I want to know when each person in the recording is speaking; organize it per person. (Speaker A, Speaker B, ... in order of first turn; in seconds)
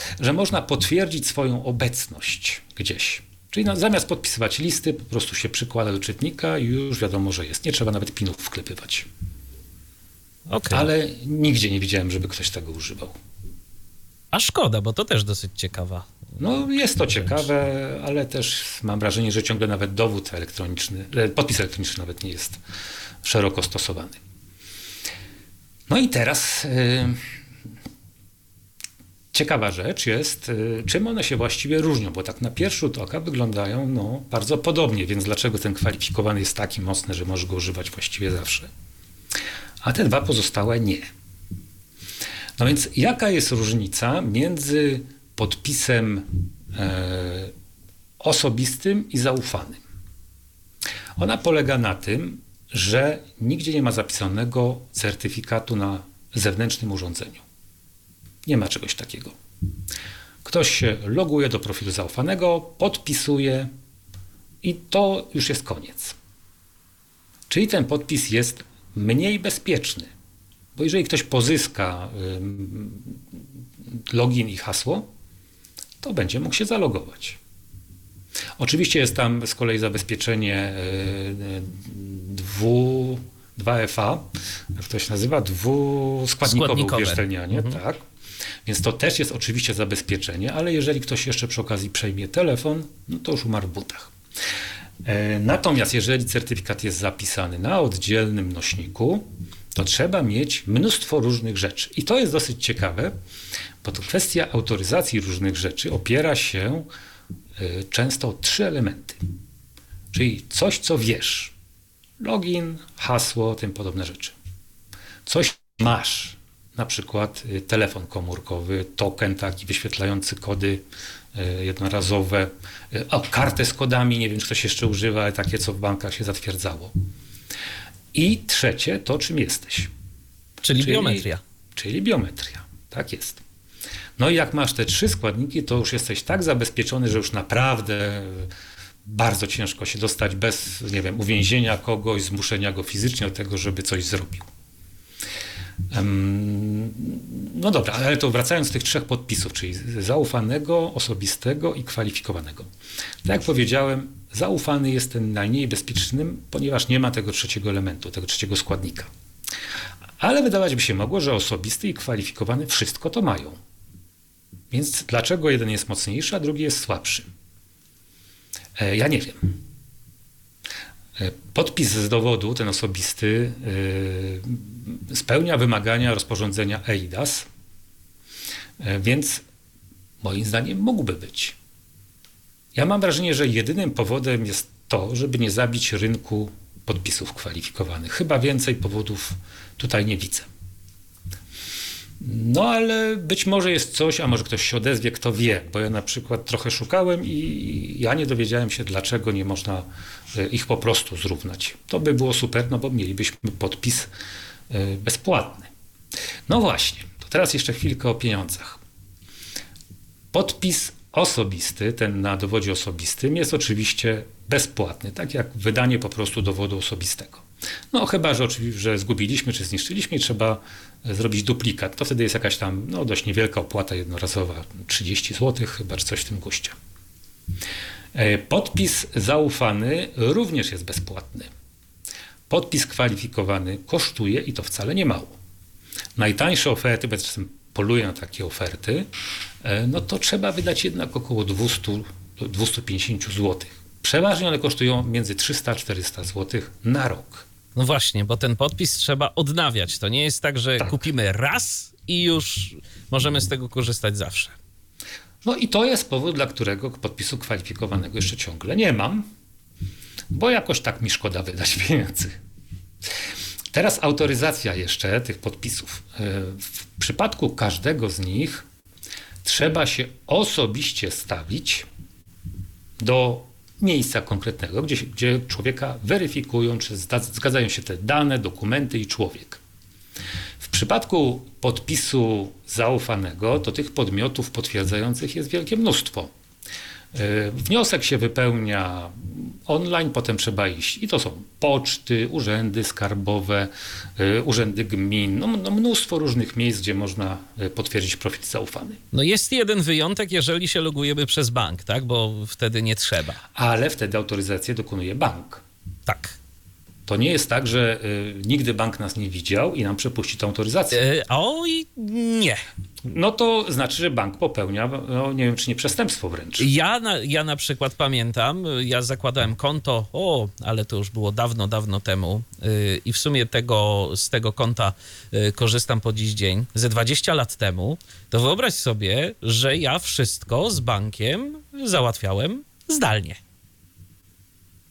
Speaker A: 0.2-9.1, 10.7-13.1, 16.4-22.6, 23.2-24.2, 25.9-27.2, 29.3-38.7, 39.8-41.1, 42.6-47.5, 48.2-49.8, 51.2-57.4, 58.4-59.4, 60.4-63.7, 64.6-66.2, 67.5-70.1, 70.8-73.2, 74.1-75.1, 76.0-77.4, 78.6-88.0, 88.7-94.1, 95.0-103.1, 103.8-106.9, 107.6-109.2, 110.1-111.5, 112.2-114.3, 115.2-120.8, 121.3-126.9, 128.1-129.9, 130.7-133.4, 134.2-138.5, 139.0-144.5, 145.9-152.7, 153.2-159.1, 160.2-163.6, 164.7-167.2, 168.8-169.5, 171.2-177.5, 178.8-179.4, 180.2-181.5, 182.7-190.5, 192.2-204.1, 204.7-205.7, 206.5-208.8, 210.3-226.7, 228.1-231.5, 232.5-235.3, 236.2-239.1, 239.6-247.4, 255.4-259.3, 260.3-262.4, 263.7-268.6, 269.4-271.9, 273.0-279.6, 280.6-286.3, 287.1-299.0, 303.5-305.6, 307.1-311.0, 313.0-316.7
Speaker B: 10.5-10.9, 14.3-16.1, 86.4-87.8, 130.6-131.4, 247.8-254.5, 299.1-303.4, 306.1-306.4, 310.9-312.6, 316.6-333.4